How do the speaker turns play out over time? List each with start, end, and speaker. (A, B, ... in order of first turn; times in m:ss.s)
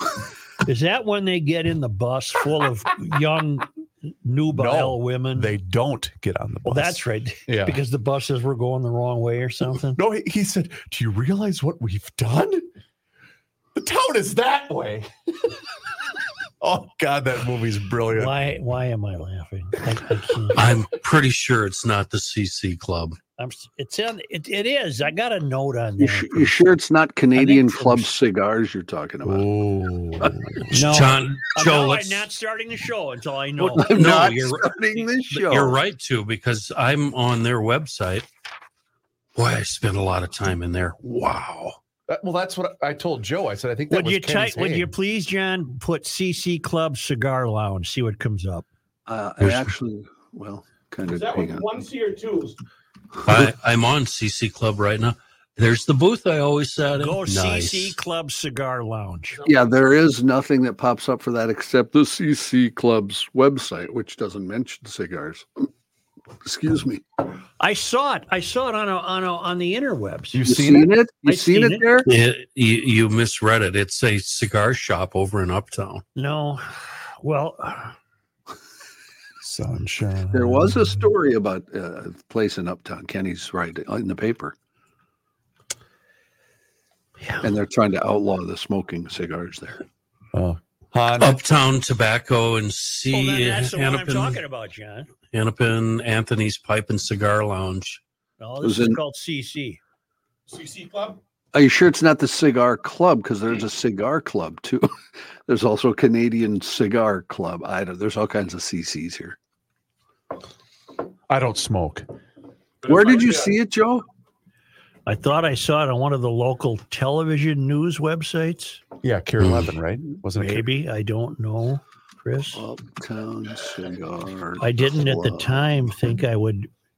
0:00.6-0:05.5 A
0:04.5-0:07.8 B
0:06.7-0:10.0 A
0:10.0-0:12.7 B
0:13.8-0:15.6 B
0:16.6-0:18.3 B
0:18.1-0:20.7 A
0:20.6-0:23.2 C
0:23.4-0:26.8 A
0:26.0-0:29.5 D
0:27.4-0:28.1 A
0:29.2-0:31.0 B
0:30.7-0:34.0 A
0:30.7-0:32.3 C
0:33.6-0:38.3 C
0:33.8-0:35.8 D
0:39.4-0:41.8 C
0:42.1-0:44.9 B
0:43.9-0:48.7 A
0:49.1-0:51.7 D
0:49.4-0:49.7 C
0:51.1-0:52.6 E
0:53.2-0:58.0 C
0:57.0-0:59.4 A
0:59.4-0:59.7 E
0:59.4-1:05.5 D
1:06.4-1:07.0 D
1:07.6-1:10.4 A
1:10.3-1:10.9 B
1:10.4-1:12.1 D
1:11.3-1:12.1 A
1:12.1-1:16.0 C
1:16.2-1:18.0 A
1:19.4-1:21.1 B
1:20.3-1:24.6 D
1:27.4-1:29.8 D
1:30.3-1:31.4 B
1:31.2-1:34.4 C
1:33.1-1:35.1 A
1:35.3-1:38.0 C
1:38.4-1:39.8 A
1:38.6-1:39.0 D
1:40.5-1:41.2 E
1:41.5-1:44.9 D
1:45.5-1:49.4 D
1:51.3-1:52.1 B
1:52.8-1:53.6 E
1:52.9-1:54.0 D
1:55.1-1:58.8 A
1:59.0-2:00.7 B
1:59.4-1:59.7 C
2:00.4-2:02.6 A
2:02.6-2:05.7 D
2:04.6-2:06.7 A